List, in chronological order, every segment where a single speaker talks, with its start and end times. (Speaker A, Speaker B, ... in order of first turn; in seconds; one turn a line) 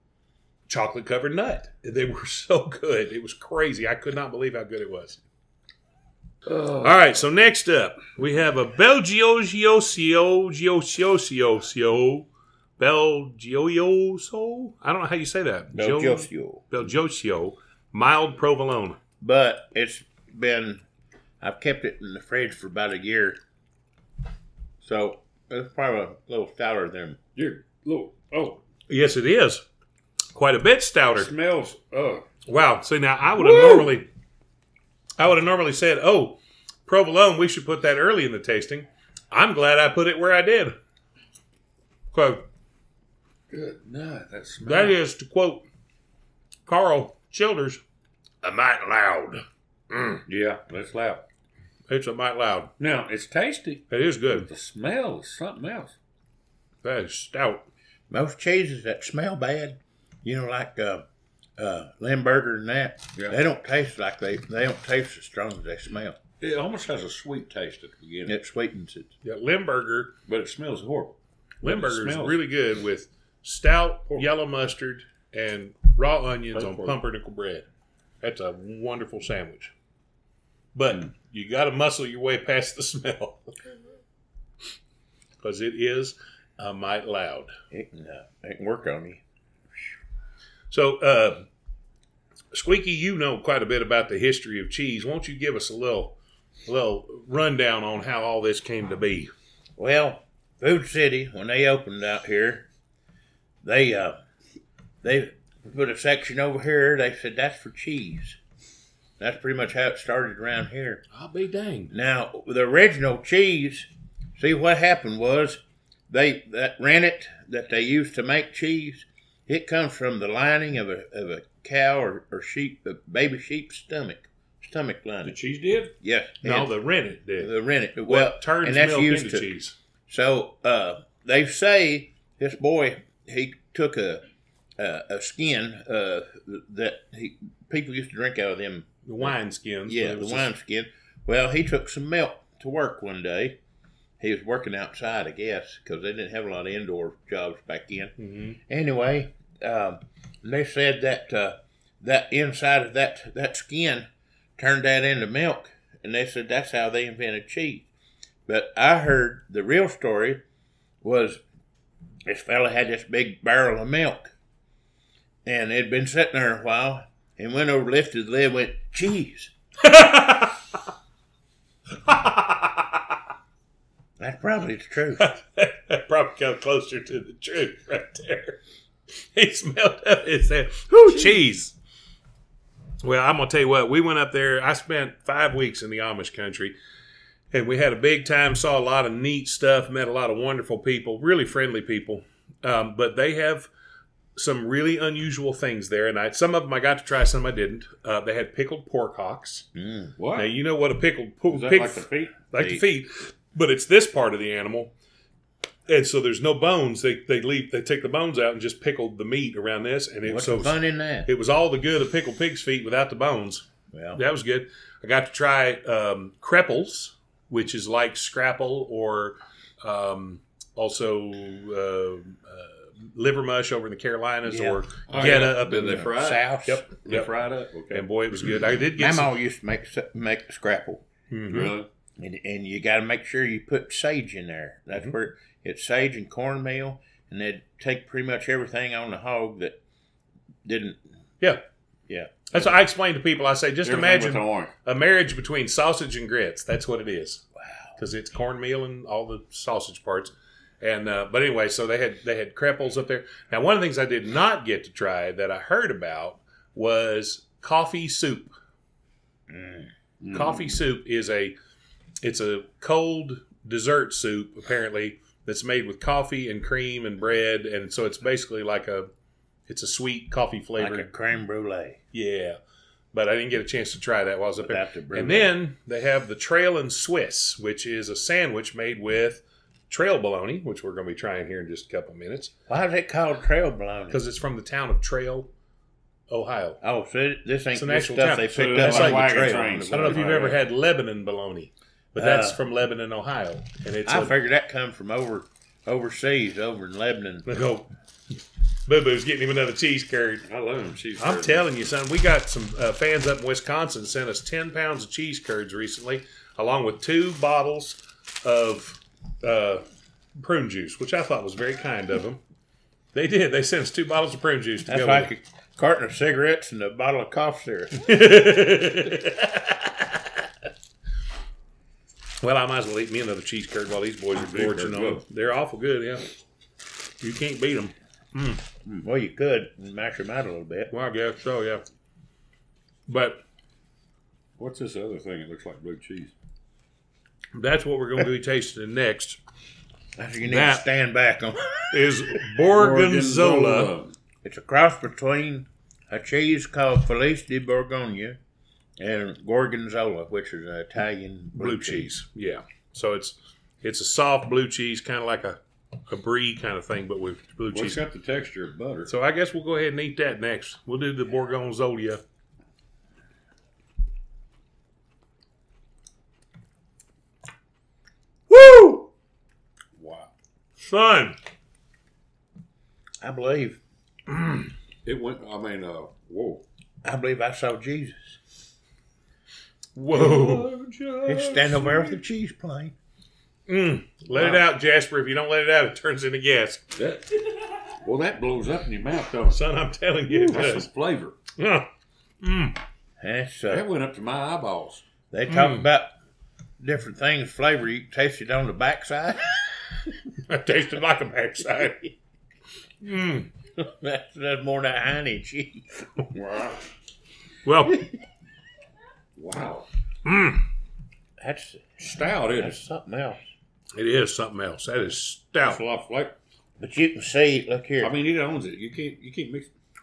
Speaker A: 0.7-5.2
Speaker B: 6.5-7.0
Speaker A: 6.8-19.0
Speaker C: 15.7-16.6
Speaker C: 19.2-20.8
Speaker C: 21.4-23.4
Speaker C: 24.8-27.2
Speaker B: 27.4-28.6
Speaker A: 28.9-29.6
Speaker A: 30.3-31.3
Speaker B: 31.1-32.2
Speaker A: 32.5-34.1
Speaker B: 33.4-33.9
Speaker A: 35.2-40.8
Speaker A: 42.1-42.5
Speaker B: 43.5-45.0
Speaker A: 44.6-45.6
Speaker A: 46.7-47.8
Speaker A: 48.4-50.2
Speaker B: 50.3-51.2
Speaker A: 51.9-52.7
Speaker B: 52.8-56.0
Speaker A: 53.9-54.5
Speaker A: 56.8-57.6
Speaker C: 58.1-61.0
Speaker C: 61.6-66.2
Speaker B: 66.4-68.4
Speaker C: 68.3-69.1
Speaker A: 69.2-70.1
Speaker B: 70.3-72.4
Speaker A: 71.6-77.7
Speaker B: 76.5-77.0
Speaker A: 78.2-79.7
Speaker A: 80.8-83.6
Speaker A: 85.4-87.5
Speaker C: 87.7-89.2
Speaker A: 90.7-91.5
Speaker A: 92.5-96.2
Speaker A: 96.7-99.3
Speaker C: 99.8-102.7
Speaker C: 103.6-104.2
Speaker C: 105.0-108.4
Speaker C: 109.2-111.0
Speaker A: 111.1-111.9
Speaker C: 111.9-125.4
Speaker B: 125.2-125.9
Speaker C: 126.0-126.7
Speaker A: 126.4-127.5
Speaker C: 127.4-129.5
Speaker A: 128.1-129.8
Speaker C: 130.1-134.2
Speaker C: 134.8-139.3
Speaker A: 139.1-140.5
Speaker C: 139.9-143.6
Speaker C: 144.2-148.1
Speaker A: 148.2-148.6
Speaker C: 148.7-157.9
Speaker C: 158.5-160.4
Speaker C: 161.0-161.4
Speaker C: 162.3-164.3
Speaker C: 165.4-169.5
Speaker A: 169.8-170.6
Speaker A: 172.1-173.0
Speaker C: 174.2-175.3
Speaker A: 175.2-178.6
Speaker A: 179.3-181.8
Speaker A: 183.0-186.8
Speaker A: 187.5-193.7
Speaker A: 194.4-199.7
Speaker C: 199.8-200.1
Speaker B: 200.2-200.5
Speaker A: 200.3-204.9
Speaker B: 201.5-202.4
Speaker C: 202.6-202.8
Speaker A: 205.9-226.1
Speaker C: 210.2-211.3
Speaker C: 213.9-214.2
Speaker C: 224.4-226.8
Speaker B: 225.1-226.5
Speaker A: 226.7-227.3
Speaker B: 227.0-228.1
Speaker A: 227.9-229.4
Speaker C: 229.0-231.0
Speaker A: 231.3-231.7
Speaker B: 231.5-231.9
Speaker C: 232.2-239.8
Speaker C: 240.7-241.0
Speaker C: 242.1-242.7
Speaker A: 242.5-247.4
Speaker B: 243.8-244.7
Speaker A: 248.0-258.5
Speaker C: 259.5-259.9
Speaker B: 260.2-260.8
Speaker A: 260.3-261.6
Speaker A: 262.2-269.1
Speaker A: 269.7-271.1
Speaker C: 270.8-272.0
Speaker A: 272.1-272.6
Speaker A: 273.1-282.5
Speaker C: 274.6-275.5
Speaker C: 282.7-284.2
Speaker A: 284.1-285.5
Speaker A: 286.3-286.8
Speaker C: 286.8-290.6
Speaker A: 287.8-294.4
Speaker B: 288.5-290.6
Speaker C: 292.2-292.6
Speaker C: 294.1-297.5
Speaker A: 297.5-300.4
Speaker B: 300.4-301.7
Speaker A: 301.2-309.8
Speaker A: 310.4-312.4
Speaker A: 313.1-315.3
Speaker C: 314.9-318.1
Speaker A: 318.0-319.8
Speaker A: 322.4-326.3
Speaker B: 324.3-325.2
Speaker A: 327.2-328.6
Speaker C: 329.0-330.9
Speaker A: 330.9-331.8
Speaker A: 333.1-333.4
Speaker B: 334.6-336.3
Speaker A: 337.6-339.4
Speaker C: 340.2-342.1
Speaker A: 340.5-340.9
Speaker A: 341.9-343.9
Speaker B: 342.7-344.1
Speaker C: 344.4-348.4
Speaker C: 349.0-352.1
Speaker A: 351.6-358.0
Speaker B: 357.7-359.1
Speaker A: 359.1-362.2
Speaker A: 368.5-369.1
Speaker B: 370.0-370.3
Speaker A: 370.8-371.4
Speaker C: 373.2-373.8
Speaker B: 375.1-376.6
Speaker C: 377.0-378.4
Speaker A: 379.9-380.7
Speaker B: 380.1-382.2
Speaker C: 381.2-382.9
Speaker A: 383.7-386.9
Speaker B: 384.4-384.6
Speaker B: 387.0-389.6
Speaker A: 389.5-390.9
Speaker B: 390.3-391.4
Speaker A: 391.6-391.9
Speaker A: 392.4-392.8
Speaker C: 393.2-393.9
Speaker B: 393.7-395.0
Speaker C: 395.3-396.1
Speaker A: 395.5-395.9
Speaker C: 396.8-399.9
Speaker A: 400.5-402.1
Speaker A: 403.0-403.5
Speaker C: 403.8-406.0
Speaker B: 406.3-406.9
Speaker A: 407.6-408.0
Speaker B: 409.4-409.9
Speaker A: 410.2-410.6
Speaker C: 411.4-413.4
Speaker B: 412.0-412.8
Speaker A: 413.9-415.8
Speaker B: 415.6-416.4
Speaker C: 416.8-418.1
Speaker B: 418.0-419.7